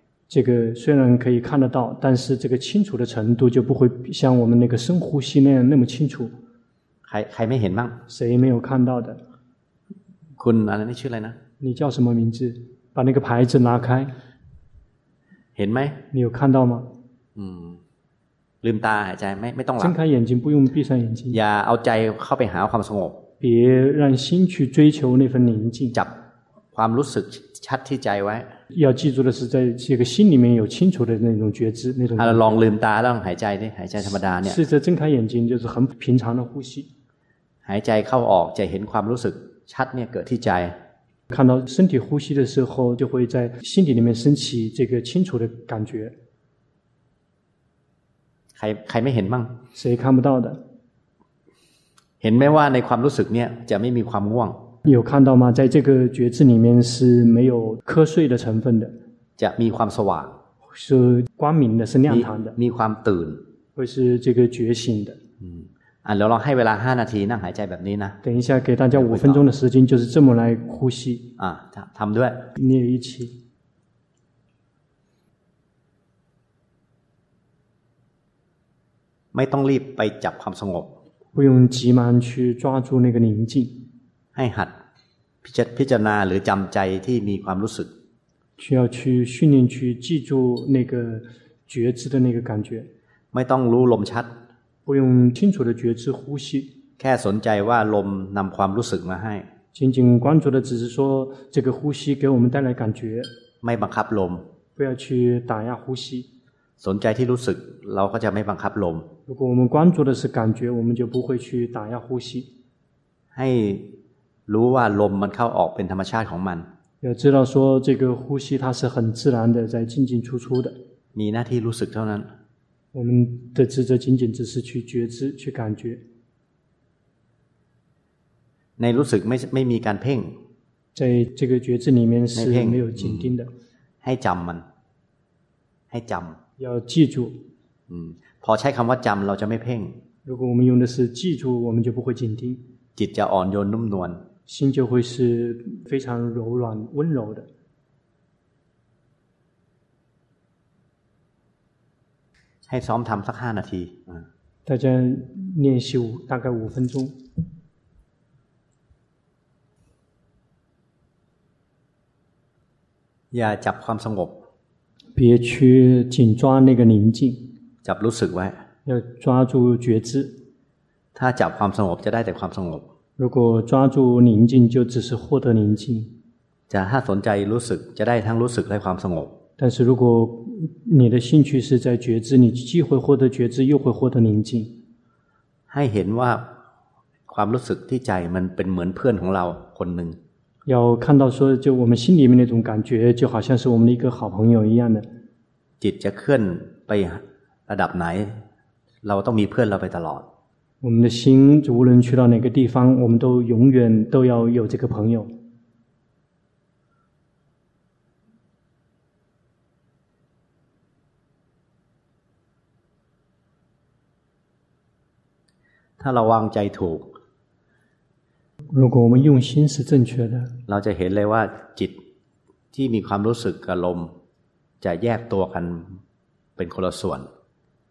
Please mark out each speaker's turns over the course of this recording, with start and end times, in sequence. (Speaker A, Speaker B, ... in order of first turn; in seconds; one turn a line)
Speaker A: 0.3-6.3
Speaker B: 7.1-8.0
Speaker A: 8.1-9.2
Speaker B: 10.4-11.4
Speaker A: 11.6-14.1
Speaker B: 15.6-16.0
Speaker A: 16.1-16.9
Speaker B: 17.4-17.8
Speaker B: 18.6-20.0
Speaker A: 19.8-21.4
Speaker B: 21.3-23.2
Speaker A: 23.4-26.0
Speaker B: 26.7-28.5
Speaker A: 28.7-32.6
Speaker B: 32.2-34.6
Speaker A: 34.4-36.9
Speaker B: 37.6-40.8
Speaker A: 41.3-46.1
Speaker B: 48.6-49.6
Speaker A: 49.7-50.6
Speaker B: 52.2-54.7
Speaker A: 54.9-59.0
Speaker B: 59.4-60.4
Speaker A: 60.7-62.6
Speaker B: 62.1-63.5
Speaker A: 63.8-65.2
Speaker B: 65.4-68.2
Speaker A: 68.2-71.3
Speaker B: 68.9-69.5
Speaker B: 71.4-72.5
Speaker A: 72.6-73.3
Speaker B: 79.3-80.9
Speaker A: 81.3-83.8
Speaker B: 84.3-84.7
Speaker B: 85.4-87.9
Speaker A: 88.6-92.9
Speaker B: 93.3-94.3
Speaker A: 94.9-96.7
Speaker B: 97.0-99.5
Speaker A: 99.7-103.3
Speaker B: 103.6-104.5
Speaker A: 104.8-106.3
Speaker B: 106.8-109.1
Speaker A: 109.3-112.5
Speaker B: 113.3-113.9
Speaker B: 114.5-116.7
Speaker A: 117.0-120.8
Speaker B: 121.1-122.3
Speaker A: 122.9-126.0
Speaker B: 128.8-130.4
Speaker A: 130.9-133.5
Speaker B: 132.3-133.3
Speaker B: 134.0-134.7
Speaker B: 135.9-136.4
Speaker A: 136.6-137.4
Speaker B: 137.9-140.0
Speaker A: 140.2-142.6
Speaker B: 143.0-144.2
Speaker A: 144.5-147.5
Speaker B: 152.7-154.3
Speaker A: 154.7-157.2
Speaker B: 163.3-164.4
Speaker A: 165.2-167.5
Speaker B: 167.8-168.6
Speaker A: 168.9-170.4
Speaker B: 171.2-172.9
Speaker A: 173.2-176.1
Speaker B: 176.7-179.4
Speaker A: 179.6-184.7
Speaker B: 185.7-186.5
Speaker B: 187.3-190.2
Speaker A: 190.7-195.1
Speaker B: 195.8-198.4
Speaker B: 199.0-200.3
Speaker A: 200.8-205.3
Speaker B: 216.0-217.1
Speaker A: 218.7-220.5
Speaker B: 220.7-222.0
Speaker B: 222.7-224.1
Speaker B: 224.8-226.0
Speaker B: 226.6-227.3